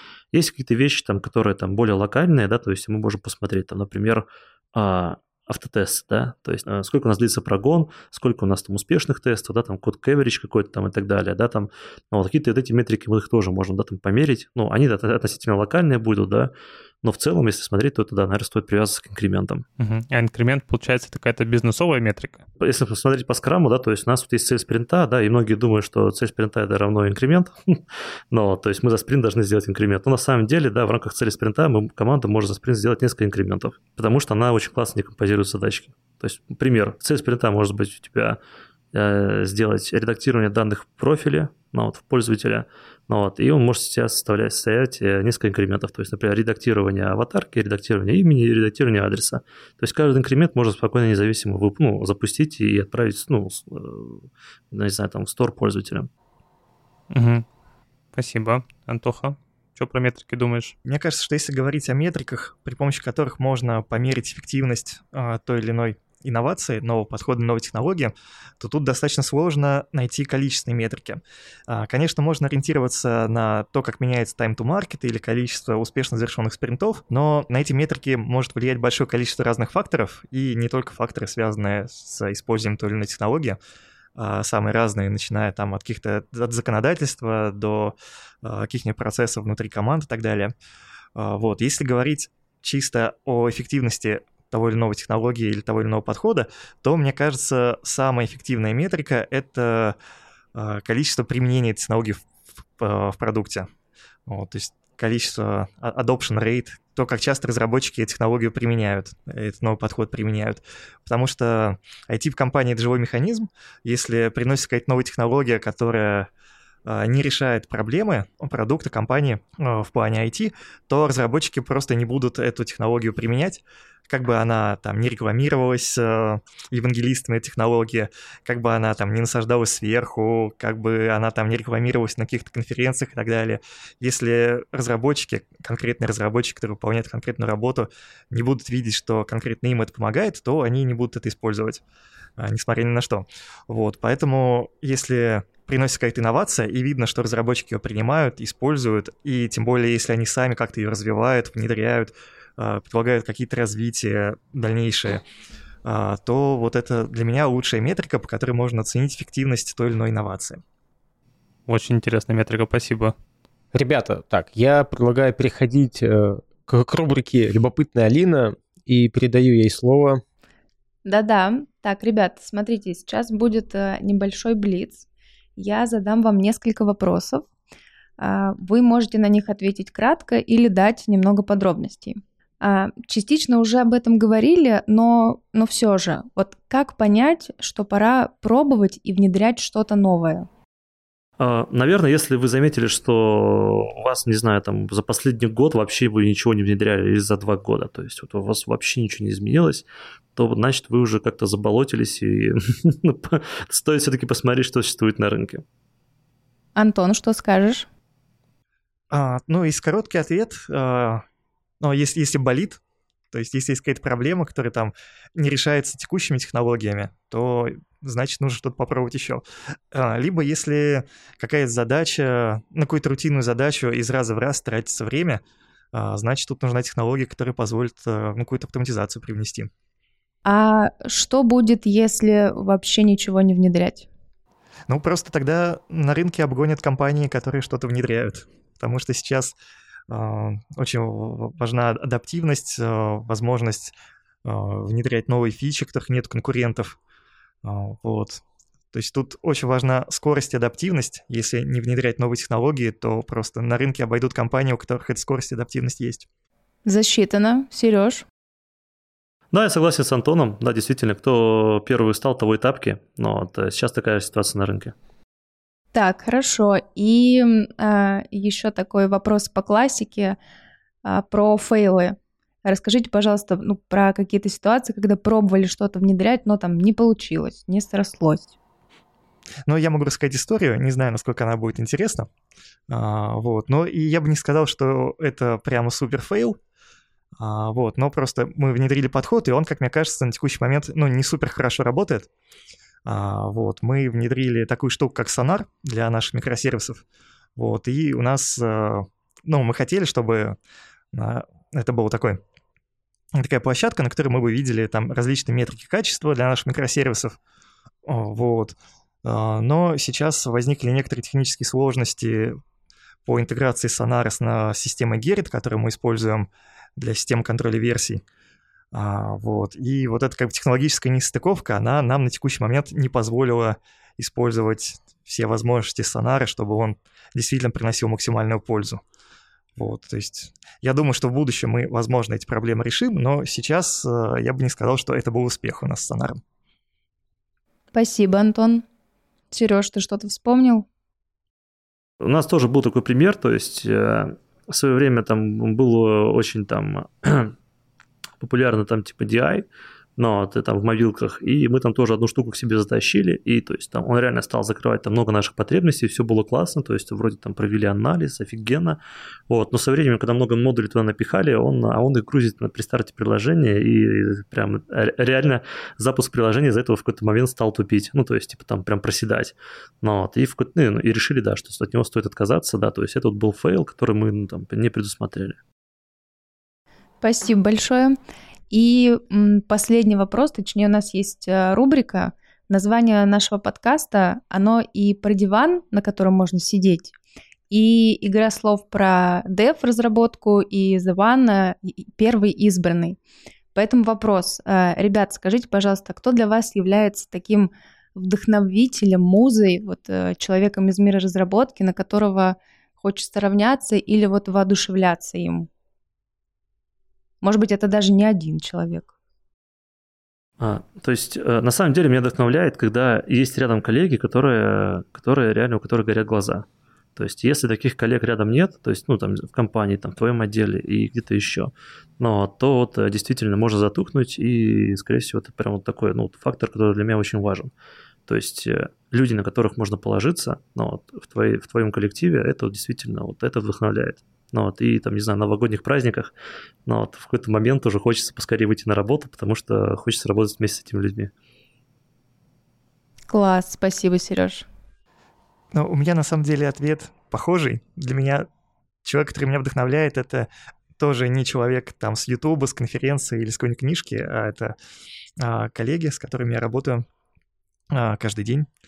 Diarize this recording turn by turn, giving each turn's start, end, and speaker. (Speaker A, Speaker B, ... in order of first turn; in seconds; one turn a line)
Speaker A: 0.3-19.6
Speaker B: 19.8-22.4
Speaker A: 22.6-38.4
Speaker A: 38.9-56.1
Speaker B: 57.1-57.5
Speaker B: 58.1-60.7
Speaker C: 60.8-83.6
Speaker C: 84.2-90.5
Speaker C: 91.1-100.0
Speaker C: 100.5-102.2
Speaker C: 102.8-103.7
Speaker C: 104.3-116.3
Speaker C: 116.8-141.8
Speaker C: 142.4-155.2
Speaker C: 155.8-160.6
Speaker B: 161.7-163.1
Speaker D: 163.7-170.2
Speaker E: 171.0-175.0
Speaker E: 175.6-177.4
Speaker E: 178.2-190.5
Speaker A: 191.4-199.8
Speaker A: 200.3-205.6
Speaker E: 206.8-207.8
Speaker C: 209.1-211.2
Speaker C: 211.8-212.8
Speaker C: 213.3-225.4
Speaker C: 225.9-229.7
Speaker E: 230.4-234.1
Speaker C: 234.9-239.6
Speaker C: 240.1-243.9
Speaker C: 244.4-247.0
Speaker C: 247.6-248.4
Speaker C: 248.9-256.2
Speaker E: 256.8-258.2
Speaker A: 259.5-264.9
Speaker E: 265.9-270.4
Speaker E: 271.0-278.5
Speaker C: 279.7-282.3
Speaker C: 282.9-286.6
Speaker C: 287.4-292.3
Speaker C: 293.1-297.0
Speaker C: 297.6-300.6
Speaker C: 301.1-302.4
Speaker C: 303.3-307.4
Speaker C: 308.0-312.6
Speaker C: 313.2-318.2
Speaker C: 318.9-329.0
Speaker C: 329.8-336.4
Speaker E: 337.9-338.8
Speaker E: 339.5-340.9
Speaker A: 342.2-347.5
Speaker A: 348.4-349.6
Speaker A: 350.2-375.6
Speaker E: 377.2-378.2
Speaker E: 378.7-387.1
Speaker E: 387.7-393.2
Speaker E: 393.7-405.7
Speaker E: 407.4-409.1
Speaker A: 410.6-427.7
Speaker A: 428.3-436.3
Speaker A: 436.9-441.3
Speaker E: 443.3-444.7
Speaker C: 445.7-448.5
Speaker C: 449.0-454.7
Speaker C: 455.4-457.0
Speaker C: 457.9-458.7